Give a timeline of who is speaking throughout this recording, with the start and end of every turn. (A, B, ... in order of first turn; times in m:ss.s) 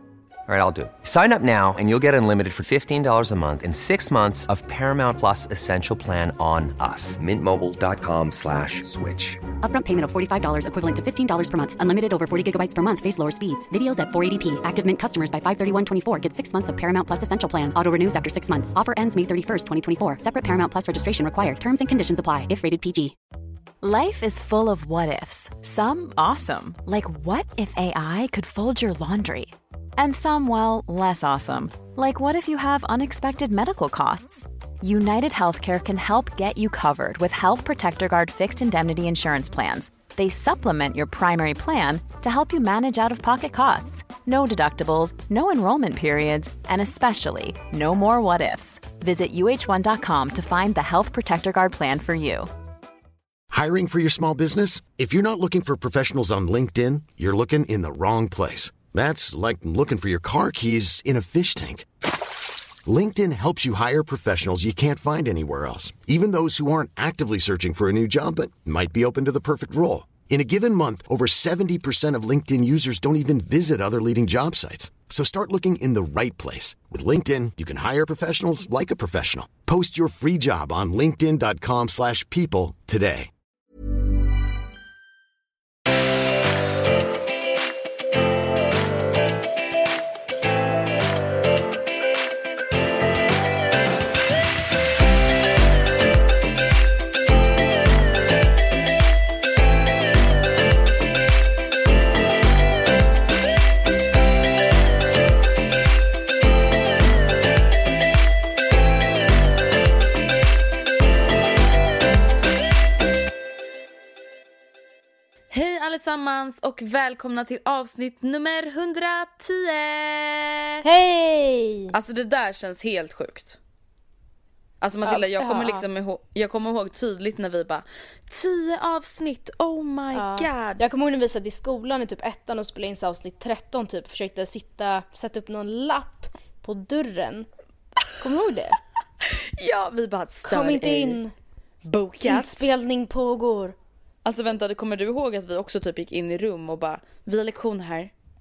0:00.5-0:09.4 A
0:09.6-0:23.2 B
0:23.8-0:52.5 C
0:53.5-1:01.9 D
1:02.8-1:23.3 D
1:55.5-2:00.8 E
2:00.8-2:02.0 F
2:01.9-2:03.6 E
2:04.8-2:10.8 E
2:05.0-2:05.8 F
2:10.1-2:17.5 F
2:18.2-2:18.8 F
2:19.3-2:21.2 E
2:20.4-2:21.3 F
2:21.8-2:22.7 E
2:22.2-2:23.8 F
2:24.2-2:28.1 E